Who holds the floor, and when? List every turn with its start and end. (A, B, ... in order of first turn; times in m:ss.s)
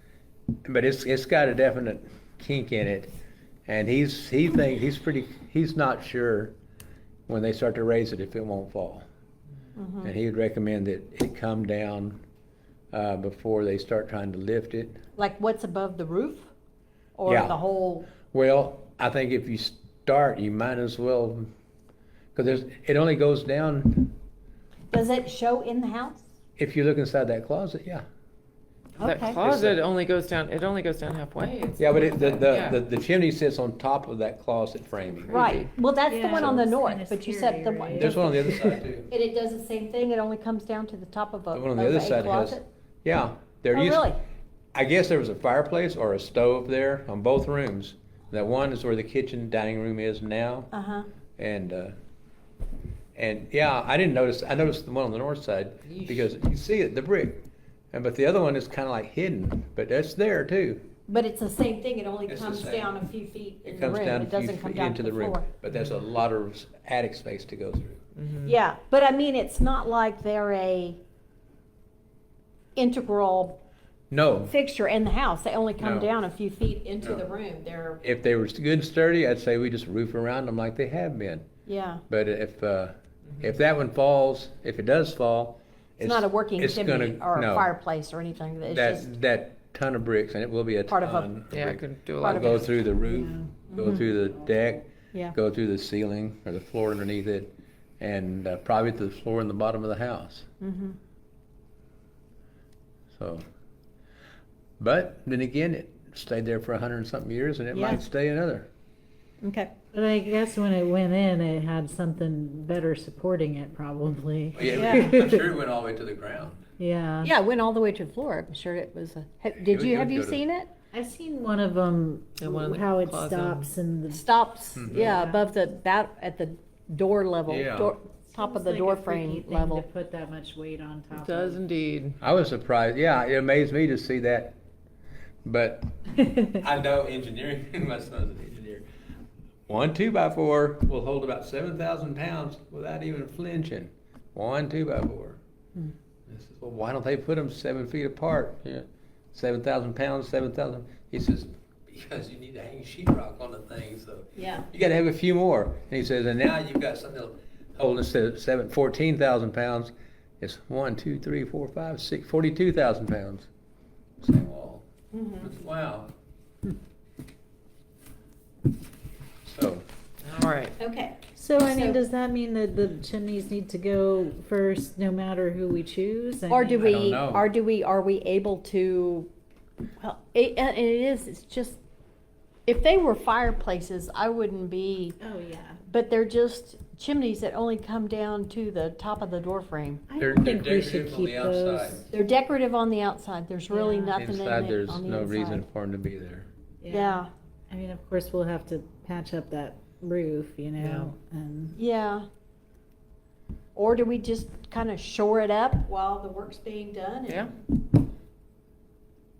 0:00.6-0:03.1 A
0:03.7-0:06.5 A
0:07.3-0:09.0 A
0:09.8-0:10.1 B
0:10.0-0:12.2 A
0:12.9-0:15.0 A
0:15.2-0:16.5 B
0:17.2-0:18.1 B
0:17.2-0:17.6 A
0:18.1-0:21.5 A
0:22.3-0:24.2 A
0:24.9-0:26.2 B
0:26.6-0:28.0 A
0:29.0-0:29.3 C
0:29.0-0:29.3 B
0:29.0-0:32.8 D
0:29.4-0:29.8 A
0:31.8-0:35.7 A
0:35.3-0:35.6 D
0:35.3-0:38.4 B
0:36.1-0:38.8 C
0:36.3-0:36.6 A
0:37.9-0:39.1 A
0:39.1-0:42.6 B
0:41.5-0:44.1 A
0:43.7-0:44.2 B
0:44.7-0:50.7 A
0:50.7-0:51.1 B
0:51.4-0:51.9 A
0:53.1-1:00.9 A
1:01.1-1:05.5 B
1:02.3-1:02.9 A
1:03.6-1:08.0 A
1:08.2-1:08.5 D
1:08.4-1:11.0 B
1:12.8-1:13.6 B
1:14.1-1:14.5 A
1:14.5-1:18.0 B
1:15.8-1:16.1 A
1:17.0-1:17.2 A
1:18.0-1:21.5 A
1:21.6-1:22.0 B
1:22.1-1:27.7 A
1:26.0-1:29.1 B
1:28.7-1:40.5 A
1:30.9-1:31.3 B
1:31.5-1:32.7 D
1:32.2-1:32.7 B
1:33.0-1:34.8 C
1:33.7-1:34.0 B
1:40.6-1:41.0 B
1:43.1-1:43.4 A
1:44.8-1:48.7 A
1:47.7-1:48.0 B
1:49.4-1:49.7 B
1:49.9-1:55.5 C
1:54.5-1:56.6 A
1:54.7-1:55.1 B
1:56.8-1:57.3 C
1:57.2-2:00.7 B
1:59.5-2:00.4 A
2:00.9-2:05.4 C
2:02.4-2:03.6 D
2:04.1-2:09.8 B
2:04.8-2:05.1 A
2:07.5-2:07.9 A
2:08.3-2:11.6 C
2:11.1-2:12.2 D
2:12.2-2:14.6 A
2:15.4-2:18.8 A
2:19.7-2:25.4 A
2:26.3-2:43.5 A
2:34.4-2:34.6 B
2:44.2-2:44.9 A
2:45.1-2:45.5 B
2:45.4-2:46.1 A
2:49.4-2:49.8 A
2:50.2-2:50.7 D
2:50.8-2:52.0 B
2:51.4-2:56.9 C
2:56.5-2:59.3 B
2:56.8-2:57.4 A
3:00.0-3:01.8 B
3:02.7-3:05.2 B
3:05.2-3:05.8 C
3:05.9-3:10.0 B
3:10.1-3:12.1 C
3:10.2-3:12.0 A
3:12.1-3:15.6 B
3:13.7-3:14.2 C
3:14.2-3:16.5 A
3:16.8-3:21.8 C
3:16.9-3:17.3 B
3:20.8-3:21.1 D
3:21.8-3:22.2 B
3:23.8-3:27.5 B